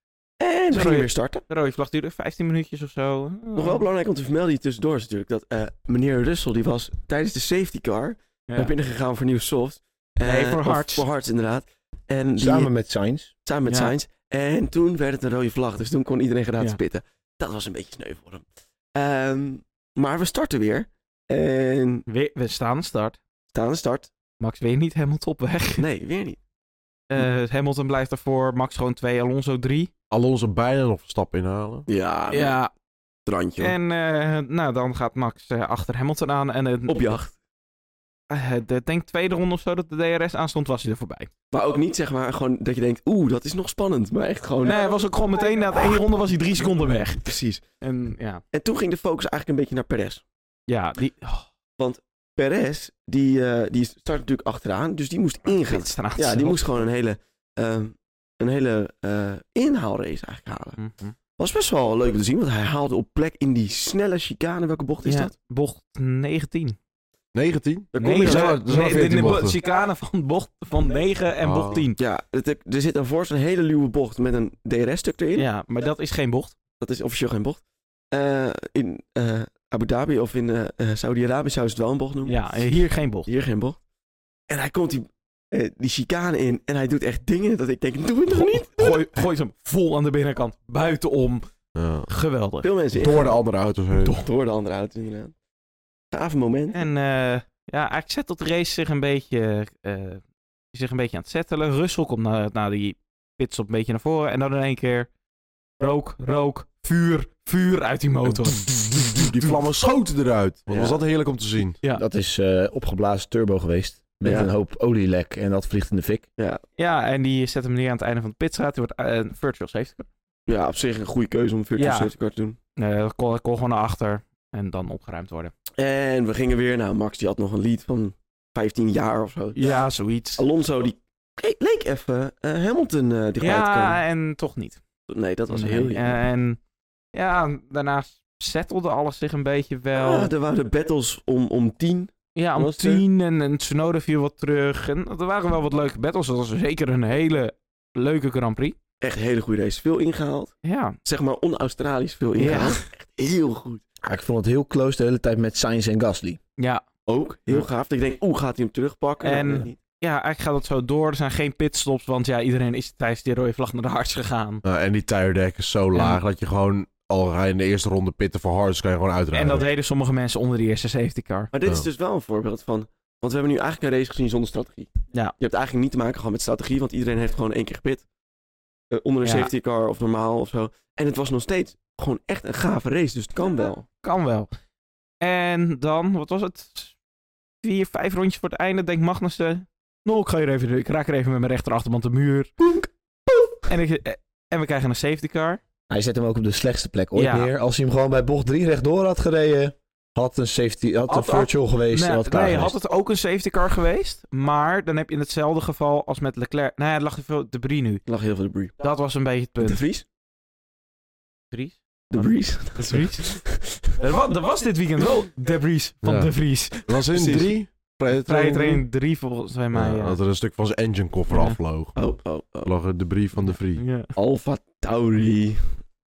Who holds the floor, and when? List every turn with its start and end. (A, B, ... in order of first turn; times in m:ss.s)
0:00.4-0:01.4 A
0:00.7-0:03.8 B
0:03.6-0:12.7 A
0:10.2-0:11.0 B
0:12.4-0:13.3 C
0:13.4-0:22.0 A
0:13.7-0:13.9 B
0:22.1-0:23.2 B
0:23.5-0:24.1 A
0:24.4-0:25.8 B
0:25.8-0:26.4 A
0:27.1-0:29.9 B
0:30.1-0:31.9 D
0:31.9-0:32.6 A
0:32.3-0:32.7 B
0:33.3-0:33.8 A
0:33.6-0:37.2 B
0:36.9-0:37.3 A
0:38.3-0:41.3 B
0:41.5-0:44.8 A
0:44.6-0:48.4 B
0:47.2-0:47.6 A
0:48.5-0:50.2 A
0:50.7-0:51.5 B
0:51.8-1:00.8 A
0:55.6-0:56.8 B
1:00.8-1:01.2 B
1:01.4-1:05.3 A
1:05.0-1:06.8 B
1:07.3-1:09.6 D
1:07.9-1:09.1 A
1:08.0-1:12.0 B
1:11.4-1:11.8 D
1:12.0-1:15.5 A
1:15.4-1:16.6 B
1:16.8-1:23.8 A
1:22.3-1:23.3 B
1:24.5-1:29.1 A
1:28.3-1:31.4 B
1:31.8-1:32.1 D
1:32.1-1:32.7 B
1:32.6-1:33.3 A
1:32.9-1:34.2 D
1:34.1-1:35.3 A
1:36.1-1:36.9 A
1:36.7-1:40.2 B
1:40.7-1:45.1 B
1:45.8-1:49.6 B
1:48.9-1:51.8 D
1:50.7-1:51.0 A
1:51.9-1:56.3 C
1:54.2-1:54.5 A
1:56.8-2:00.1 B
2:00.5-2:02.6 A
2:01.8-2:02.1 B
2:02.8-2:05.5 B
2:05.8-2:09.7 A
2:09.6-2:10.4 B
2:10.4-2:14.0 A
2:13.4-2:14.8 B
2:15.1-2:16.2 A
2:15.5-2:16.6 B
2:17.1-2:20.3 B
2:20.0-2:23.0 A
2:22.4-2:28.8 B
2:29.0-2:30.5 A
2:30.6-2:31.0 B
2:31.0-2:33.8 A
2:32.4-2:32.8 B
2:34.0-2:36.4 C
2:36.6-2:36.8 B
2:37.1-2:39.8 A
2:39.2-2:44.6 B
2:44.6-2:49.6 D
2:45.9-2:46.2 B
2:49.3-2:51.5 B
2:51.5-2:58.0 A
2:58.9-3:03.8 A
2:59.2-2:59.5 B
3:04.0-3:04.5 B
3:05.2-3:07.0 B
3:07.6-3:12.6 B
3:13.7-3:15.6 B
3:15.9-3:22.8 C
3:17.2-3:17.5 B
3:21.1-3:28.0 B
3:28.1-3:28.7 A
3:28.8-3:29.8 B
3:29.6-3:30.0 A
3:31.5-3:37.0 B
3:32.1-3:34.0 A
3:36.0-3:36.3 D
3:36.8-3:38.8 D
3:37.1-3:37.5 A
3:38.3-3:40.2 B
3:39.7-3:42.0 D
3:41.3-3:41.6 B
3:42.0-3:42.7 A
3:42.6-3:43.8 D
3:43.5-3:44.1 B
3:44.2-3:45.8 A